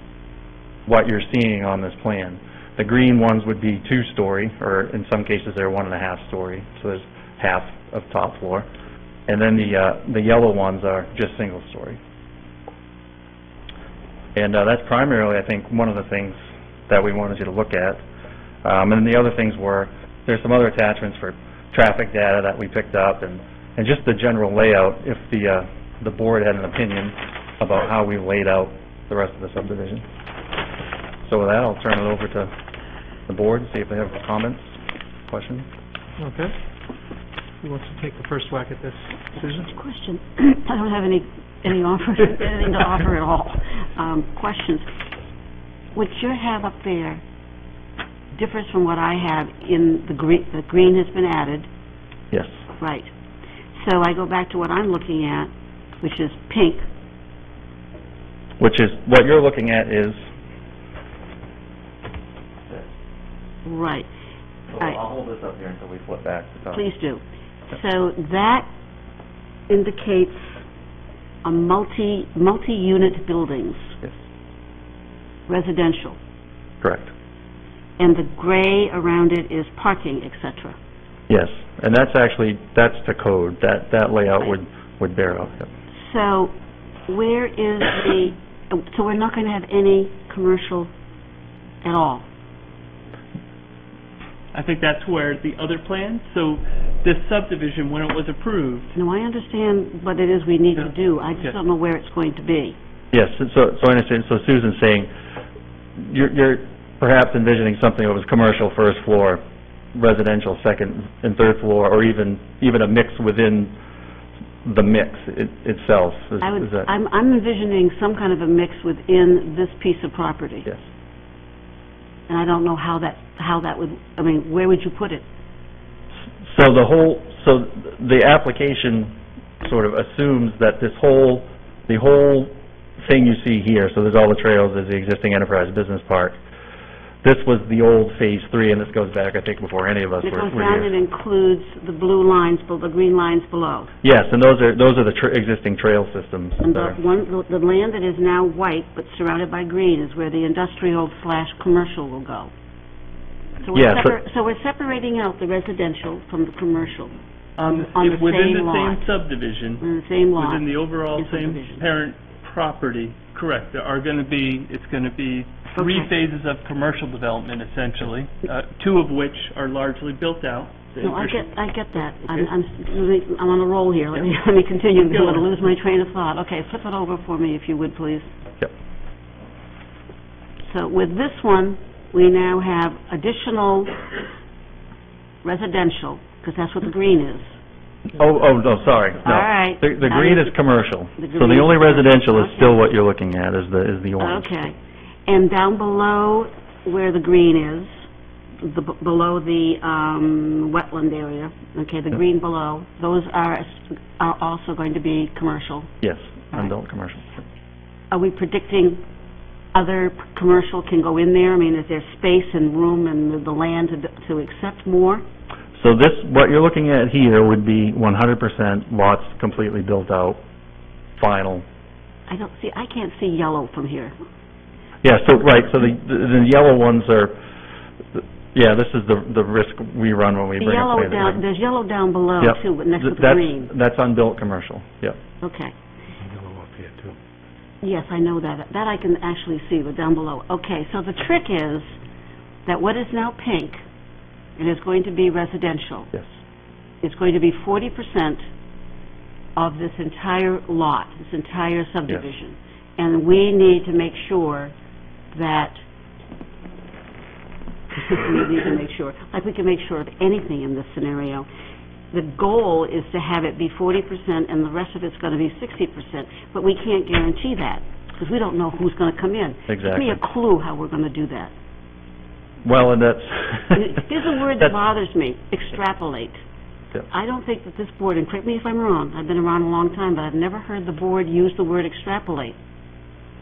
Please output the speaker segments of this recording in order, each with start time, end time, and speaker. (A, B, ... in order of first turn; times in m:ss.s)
0:00.8-0:08.7 A
0:09.3-0:12.0 A
0:14.4-0:18.0 A
0:18.6-0:30.0 A
0:31.2-0:32.5 A
0:33.3-0:35.7 A
0:36.2-0:36.5 B
0:37.6-0:39.7 B
0:39.5-0:44.9 C
0:45.9-0:47.2 C
0:48.3-0:51.7 C
0:52.3-0:52.6 A
0:52.8-0:53.1 C
0:53.7-0:55.5 C
0:56.0-0:56.8 C
0:58.6-1:00.2 A
1:03.6-1:04.1 C
1:04.7-1:06.8 A
1:06.7-1:08.6 C
1:09.7-1:10.6 C
1:11.4-1:14.0 C
1:15.5-1:16.2 C
1:16.8-1:17.1 A
1:18.0-1:20.8 C
1:21.3-1:25.7 A
1:26.0-1:26.5 C
1:27.1-1:30.9 C
1:31.8-1:32.2 C
1:34.5-1:38.9 D
1:38.9-1:42.8 C
1:43.1-1:45.1 A
1:46.0-1:49.4 A
1:49.9-1:53.7 A
1:54.6-1:56.9 A
1:56.4-2:00.7 C
2:02.3-2:05.2 C
2:06.4-2:16.4 A
2:17.2-2:20.9 A
2:20.2-2:23.9 C
2:24.0-2:27.0 A
2:26.6-2:32.5 C
2:33.6-2:37.1 C
2:33.7-2:34.1 A
2:37.6-2:51.5 D
2:37.7-2:39.1 C
2:39.8-2:41.8 C
2:45.7-2:46.1 C
2:51.0-2:58.3 C
2:55.0-2:55.4 D
3:00.6-3:04.0 C
3:05.4-3:07.5 C
3:08.1-3:14.7 A
3:09.2-3:10.5 C
3:11.2-3:12.8 C
3:14.2-3:14.7 C
3:15.2-3:18.0 C
3:18.6-3:25.9 C
3:26.0-3:27.4 A
3:28.1-3:29.0 C
3:29.7-3:35.2 C
3:35.7-3:40.4 A
3:41.2-3:41.6 A
3:42.3-3:44.1 C
3:45.0-3:47.3 A
3:48.1-3:51.4 A
3:50.6-3:53.7 C
3:52.4-3:55.2 A
3:55.4-3:55.7 C
3:56.2-3:57.2 B
3:57.8-4:01.9 C
4:02.6-4:03.8 C
4:04.6-4:06.1 C
4:07.0-4:08.4 C
4:09.6-4:14.7 C
4:15.3-4:15.8 C
4:17.9-4:21.4 C
4:22.1-4:31.5 C
4:29.7-4:30.2 A
4:32.6-4:34.0 A
4:33.7-4:36.4 C
4:37.1-4:42.6 C